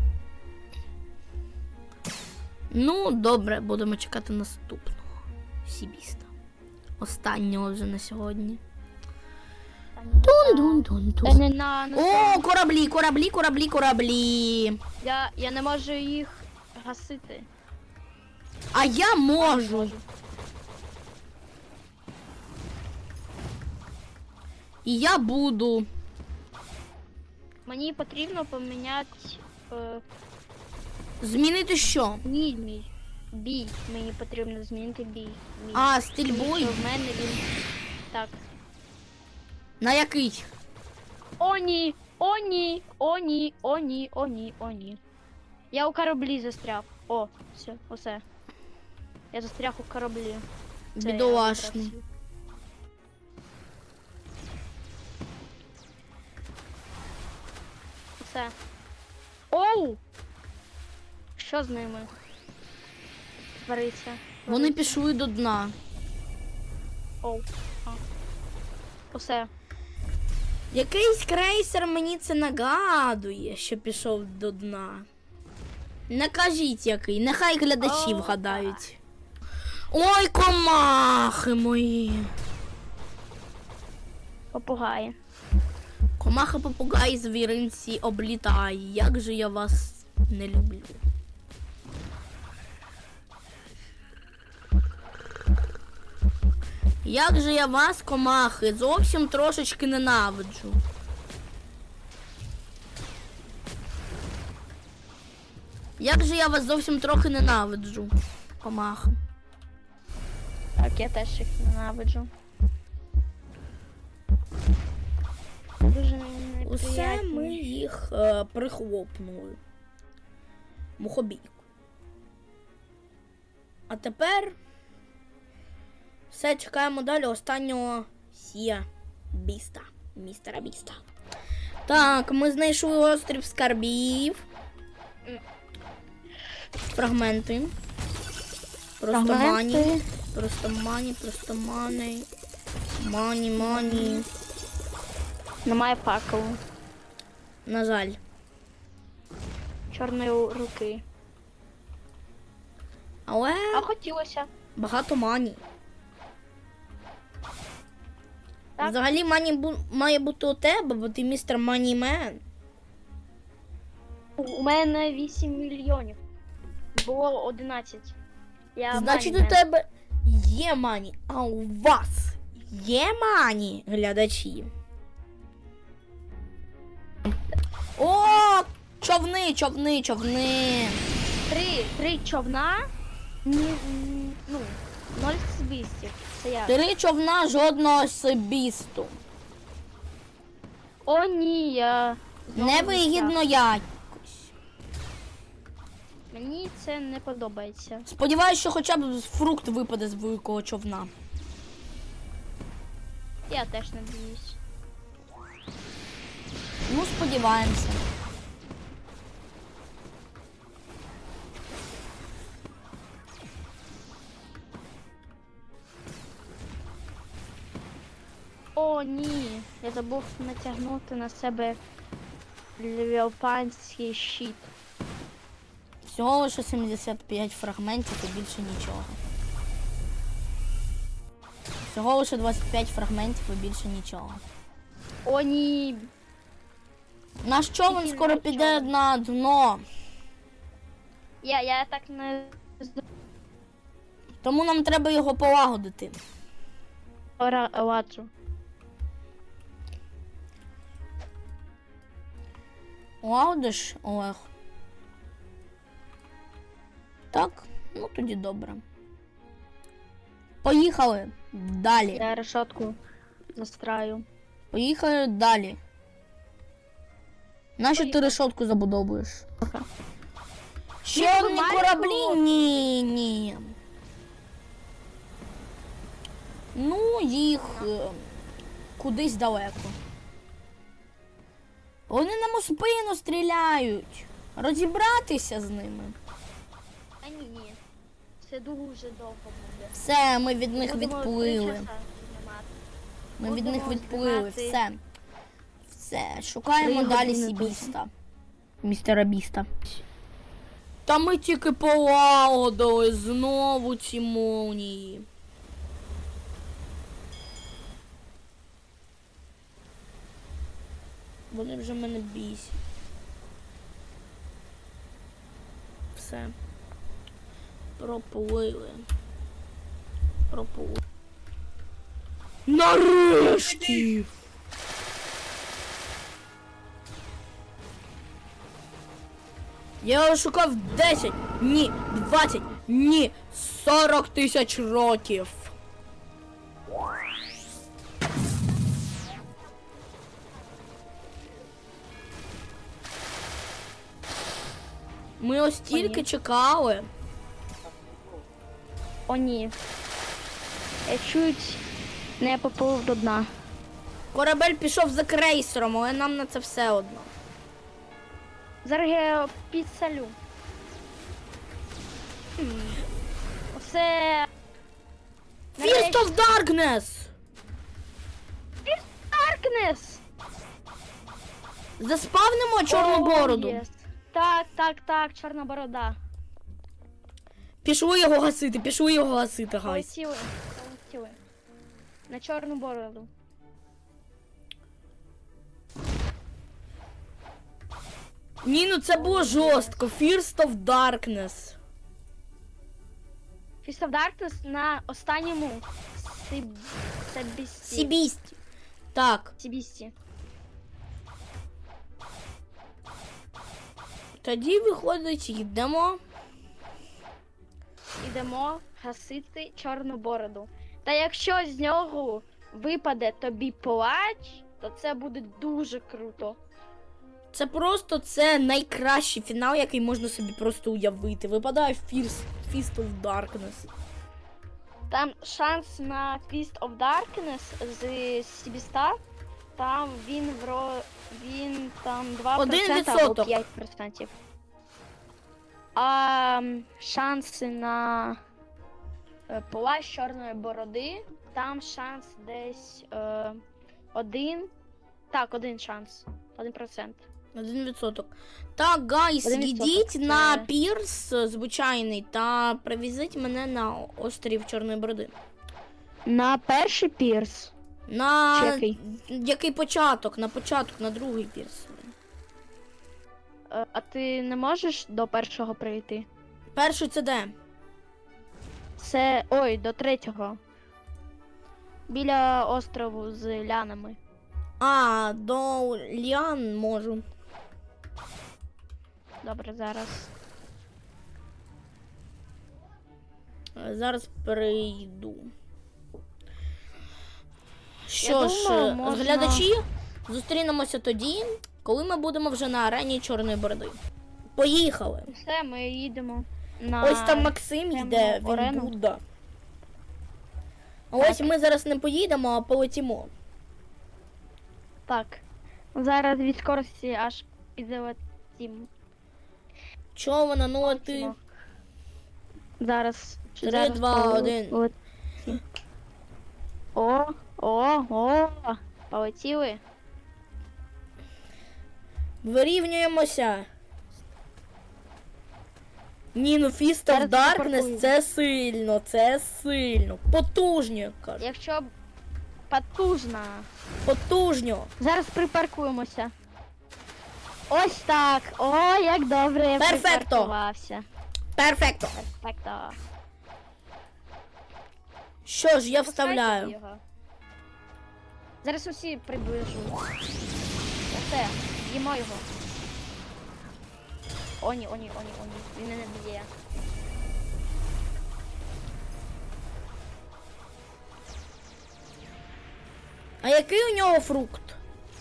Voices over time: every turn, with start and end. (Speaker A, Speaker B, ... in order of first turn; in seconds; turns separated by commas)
Speaker A: 2.7-6.3, Speaker A: 7.0-8.6, Speaker B: 9.9-12.4, Speaker A: 10.2-14.8, Speaker B: 15.0-17.5, Speaker A: 18.7-19.9, Speaker B: 19.4-20.0, Speaker A: 24.8-25.9, Speaker B: 27.7-30.0, Speaker A: 31.2-32.2, Speaker B: 32.2-37.4, Speaker A: 35.7-36.8, Speaker B: 38.1-38.4, Speaker A: 39.8-40.5, Speaker B: 41.4-45.0, Speaker B: 45.7-48.2, Speaker B: 49.3-50.4, Speaker A: 50.9-51.9, Speaker B: 51.0-52.0, Speaker B: 58.2-58.5, Speaker B: 59.5-60.0, Speaker B: 61.4-62.1, Speaker B: 63.6-65.0, Speaker A: 64.5-65.7, Speaker B: 67.2-68.0, Speaker B: 69.1-69.5, Speaker A: 70.7-75.1, Speaker A: 76.1-79.0, Speaker B: 77.8-78.8, Speaker A: 79.9-82.3, Speaker B: 84.5-85.1, Speaker A: 86.2-91.0, Speaker A: 97.0-100.8, Speaker A: 106.0-109.2, Speaker B: 110.8-112.3, Speaker B: 115.8-117.7, Speaker A: 116.6-119.6, Speaker A: 121.0-121.6, Speaker A: 123.9-124.6, Speaker A: 126.3-131.0, Speaker A: 131.8-134.4, Speaker A: 136.9-137.7, Speaker A: 139.0-142.3, Speaker B: 139.1-140.0, Speaker A: 143.0-144.3, Speaker B: 143.6-144.2, Speaker B: 145.6-146.6, Speaker A: 147.7-148.2, Speaker B: 149.9-151.0, Speaker A: 153.3-153.9, Speaker B: 153.7-154.5, Speaker A: 154.8-155.6, Speaker A: 158.8-162.4, Speaker B: 164.4-166.2, Speaker B: 166.9-168.2, Speaker B: 168.8-169.6, Speaker A: 168.9-174.7, Speaker A: 177.9-181.0, Speaker B: 181.5-182.8, Speaker B: 183.4-186.8, Speaker A: 186.7-189.2, Speaker B: 191.1-193.4, Speaker A: 192.6-194.5, Speaker B: 196.3-198.1, Speaker A: 198.0-201.1, Speaker B: 203.5-204.6, Speaker A: 206.9-208.1, Speaker B: 218.8-221.8, Speaker B: 222.8-224.7, Speaker A: 226.0-229.2, Speaker A: 231.8-234.4, Speaker B: 235.2-236.1, Speaker A: 237.4-239.8, Speaker B: 237.9-238.9, Speaker B: 241.4-243.0, Speaker A: 244.4-246.2, Speaker B: 247.4-248.3, Speaker A: 253.2-254.5, Speaker A: 257.3-258.8, Speaker A: 260.6-262.2, Speaker B: 262.1-262.9, Speaker B: 263.6-264.2, Speaker A: 264.7-265.8, Speaker A: 267.8-269.5, Speaker B: 267.9-268.4, Speaker A: 271.0-273.7, Speaker B: 271.1-272.6, Speaker A: 276.7-278.2, Speaker B: 277.6-277.9, Speaker A: 279.0-280.0, Speaker A: 282.1-286.2, Speaker B: 287.2-287.8, Speaker B: 288.4-290.0, Speaker A: 289.9-291.9, Speaker B: 290.7-292.7, Speaker A: 293.4-295.0, Speaker B: 293.4-294.8, Speaker A: 295.9-298.1, Speaker B: 296.8-297.9, Speaker A: 298.8-299.7, Speaker A: 301.1-305.2, Speaker A: 311.5-312.8, Speaker A: 316.1-316.5, Speaker A: 318.0-319.1, Speaker A: 320.5-321.0, Speaker A: 322.6-324.3, Speaker A: 330.0-335.7, Speaker A: 345.4-347.1, Speaker B: 345.9-346.2, Speaker B: 349.3-349.7, Speaker B: 351.1-351.8, Speaker B: 352.4-353.5, Speaker A: 354.3-357.3, Speaker B: 358.8-360.4, Speaker B: 362.6-363.0, Speaker B: 363.7-364.5, Speaker B: 365.8-366.3, Speaker A: 365.8-367.3, Speaker B: 368.8-370.2, Speaker A: 372.0-373.8, Speaker B: 372.9-376.2, Speaker A: 377.8-380.1, Speaker B: 379.8-381.4, Speaker B: 382.3-383.3, Speaker A: 388.6-391.8, Speaker B: 389.1-390.0, Speaker B: 393.8-398.1, Speaker A: 397.8-398.6, Speaker A: 399.1-399.5, Speaker B: 399.6-400.1, Speaker A: 404.4-406.2, Speaker B: 408.2-416.6, Speaker A: 417.5-423.9, Speaker B: 425.1-429.2, Speaker B: 429.8-434.4, Speaker A: 432.6-433.6, Speaker B: 435.9-438.4, Speaker B: 439.5-443.6, Speaker B: 444.1-444.7, Speaker B: 445.3-447.2, Speaker A: 447.5-455.3, Speaker B: 449.4-450.7, Speaker B: 456.3-457.7, Speaker A: 458.1-462.1, Speaker B: 458.5-459.0, Speaker B: 463.7-466.3, Speaker A: 466.7-467.5, Speaker B: 469.0-470.6, Speaker B: 472.1-474.2, Speaker A: 474.8-477.2, Speaker B: 479.4-480.3, Speaker A: 483.7-485.5, Speaker A: 488.1-494.0, Speaker B: 488.2-489.7, Speaker A: 494.5-495.3, Speaker B: 495.3-498.9, Speaker A: 497.0-499.2, Speaker A: 501.1-503.3, Speaker B: 501.2-501.5, Speaker B: 505.1-505.4, Speaker B: 505.9-508.9, Speaker A: 510.1-511.3, Speaker B: 510.8-511.4, Speaker B: 512.8-514.9, Speaker A: 513.6-514.8, Speaker B: 517.0-519.8, Speaker A: 522.4-523.7, Speaker A: 526.3-531.4, Speaker B: 527.1-528.1, Speaker B: 531.4-531.9, Speaker B: 532.7-533.7, Speaker A: 534.0-534.9, Speaker B: 535.0-536.3, Speaker B: 537.7-541.0, Speaker A: 539.8-540.5, Speaker A: 541.5-542.1, Speaker B: 542.1-543.0, Speaker A: 545.4-546.7, Speaker B: 546.0-547.0, Speaker B: 548.6-550.1, Speaker B: 551.1-552.5, Speaker B: 554.6-556.5, Speaker A: 563.4-564.8